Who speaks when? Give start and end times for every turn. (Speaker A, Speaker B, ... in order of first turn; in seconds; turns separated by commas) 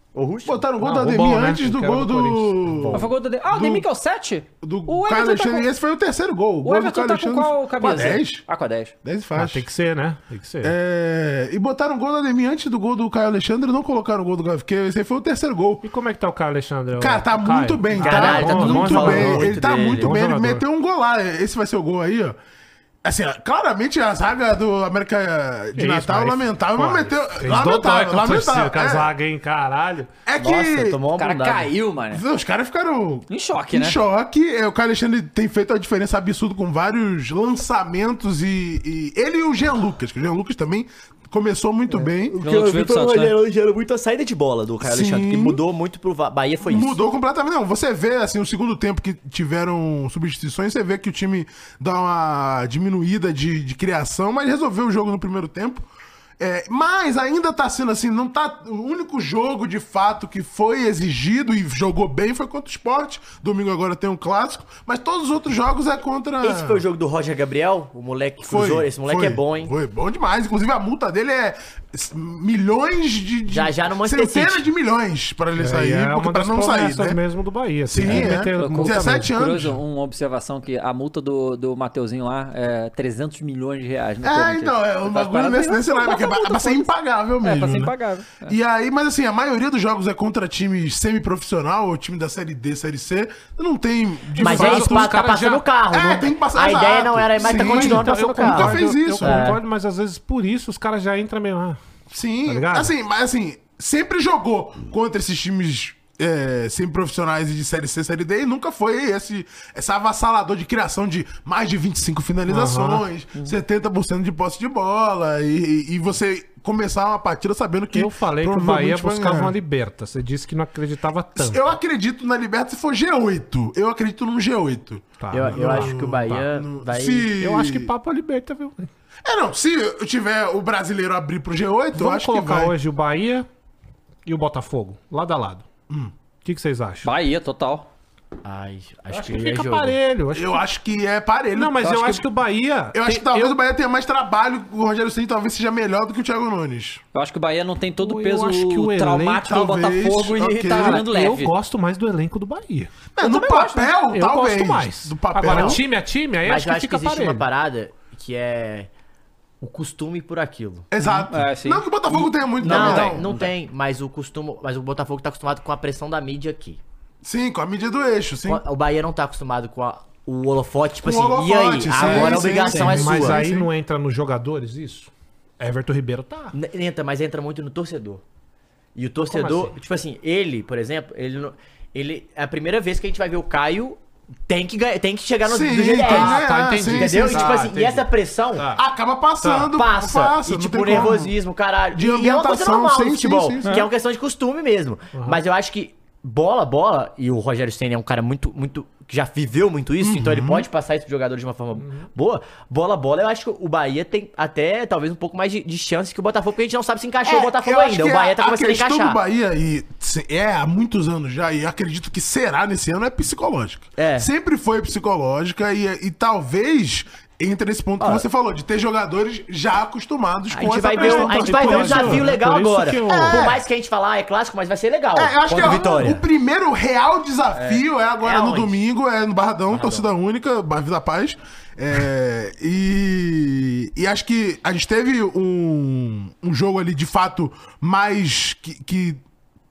Speaker A: 0.1-0.7, Speaker B: 0.5-3.8, Speaker C: 0.8-3.1, Speaker D: 2.9-5.7, Speaker B: 4.6-8.4, Speaker D: 6.6-8.9, Speaker B: 9.0-9.7, Speaker C: 9.3-10.8, Speaker B: 10.6-15.8, Speaker C: 15.8-20.6, Speaker B: 17.0-22.4, Speaker A: 18.0-20.2, Speaker B: 23.0-29.1, Speaker C: 25.8-30.1, Speaker B: 30.3-31.0, Speaker A: 30.4-31.7, Speaker D: 31.2-32.2, Speaker B: 32.1-42.4, Speaker D: 33.3-34.0, Speaker A: 41.9-47.0, Speaker D: 42.4-43.4, Speaker B: 44.8-45.6, Speaker B: 46.6-55.9, Speaker B: 56.4-66.8, Speaker A: 66.4-69.7, Speaker B: 68.4-77.2, Speaker A: 73.5-74.7, Speaker C: 75.5-79.3, Speaker B: 77.9-79.8, Speaker D: 78.0-88.6, Speaker B: 84.2-87.9, Speaker B: 88.5-95.1, Speaker C: 94.4-95.7, Speaker A: 94.4-99.6, Speaker B: 95.9-99.5, Speaker C: 97.4-101.8, Speaker B: 102.1-119.5, Speaker C: 102.5-102.9, Speaker C: 112.5-113.0, Speaker C: 117.9-121.6, Speaker B: 121.4-127.9, Speaker C: 125.2-126.5, Speaker A: 125.3-127.3, Speaker C: 127.4-128.9, Speaker B: 129.2-132.7, Speaker C: 131.9-133.5, Speaker C: 134.3-135.7, Speaker C: 136.4-137.1, Speaker D: 137.0-137.9, Speaker A: 138.4-140.0, Speaker C: 139.1-140.6, Speaker B: 140.3-142.2, Speaker C: 141.6-143.6, Speaker D: 141.8-142.2, Speaker B: 142.9-147.0, Speaker D: 147.1-151.5, Speaker C: 148.0-149.5, Speaker B: 149.5-151.1, Speaker C: 150.7-152.9, Speaker B: 153.1-155.8, Speaker D: 153.2-153.9, Speaker C: 154.1-157.4, Speaker D: 155.5-155.8, Speaker A: 156.4-158.9, Speaker A: 159.6-160.9, Speaker B: 160.9-163.4, Speaker D: 161.1-163.5, Speaker A: 162.6-166.8, Speaker B: 167.2-168.6, Speaker A: 168.5-173.4, Speaker B: 171.0-173.7, Speaker C: 172.0-176.6, Speaker D: 172.0-172.3, Speaker A: 176.5-178.2, Speaker A: 178.9-188.7, Speaker C: 179.3-179.7, Speaker B: 185.5-187.7, Speaker C: 186.0-188.8, Speaker B: 188.8-191.3, Speaker C: 189.4-189.7, Speaker A: 189.7-209.2, Speaker C: 190.9-191.3, Speaker B: 191.9-193.7, Speaker C: 195.1-195.4, Speaker B: 200.0-200.7, Speaker C: 201.8-202.1, Speaker B: 207.3-222.3, Speaker A: 214.0-214.3, Speaker A: 218.0-218.2, Speaker A: 220.5-226.2, Speaker C: 220.9-223.6, Speaker B: 223.1-223.6, Speaker B: 225.2-239.2, Speaker D: 225.5-225.8, Speaker A: 227.5-228.8, Speaker A: 229.7-230.1